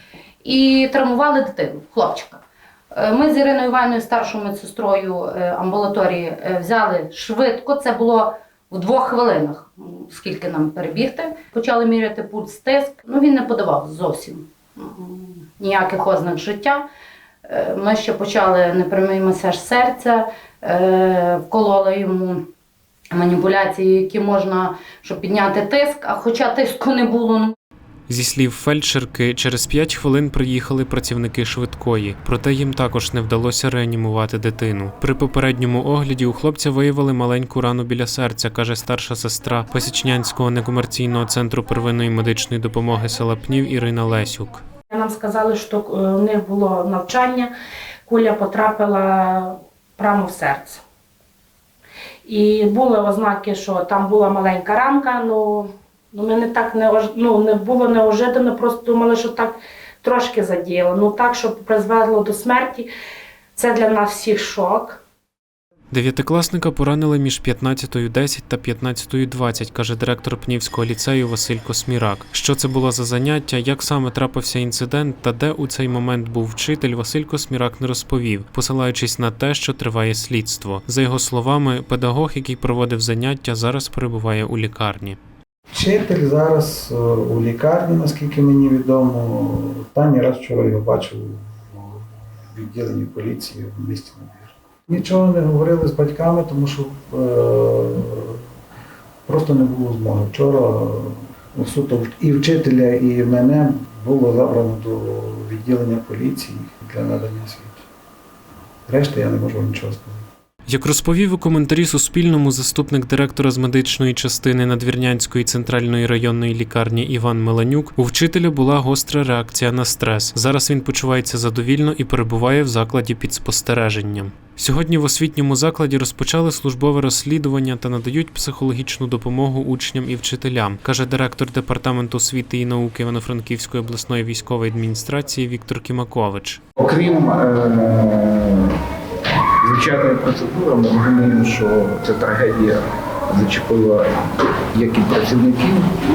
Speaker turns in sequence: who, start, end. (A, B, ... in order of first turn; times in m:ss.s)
0:00.4-0:16.8 A
0:17.5-0:22.5 A
0:23.1-0:27.5 A
0:28.1-0:44.6 B
0:45.0-0:47.5 C
0:48.1-0:49.0 C
0:50.0-0:50.8 C
0:52.3-0:55.5 C
0:56.2-0:59.5 C
1:00.0-1:02.8 C
1:03.6-1:04.9 C
1:05.9-1:25.2 B
1:25.7-1:38.4 D
1:39.2-1:47.8 D
1:48.9-1:50.2 D
1:50.7-2:16.6 B
2:16.8-2:18.8 E
2:19.6-2:24.1 E
2:24.7-2:25.9 E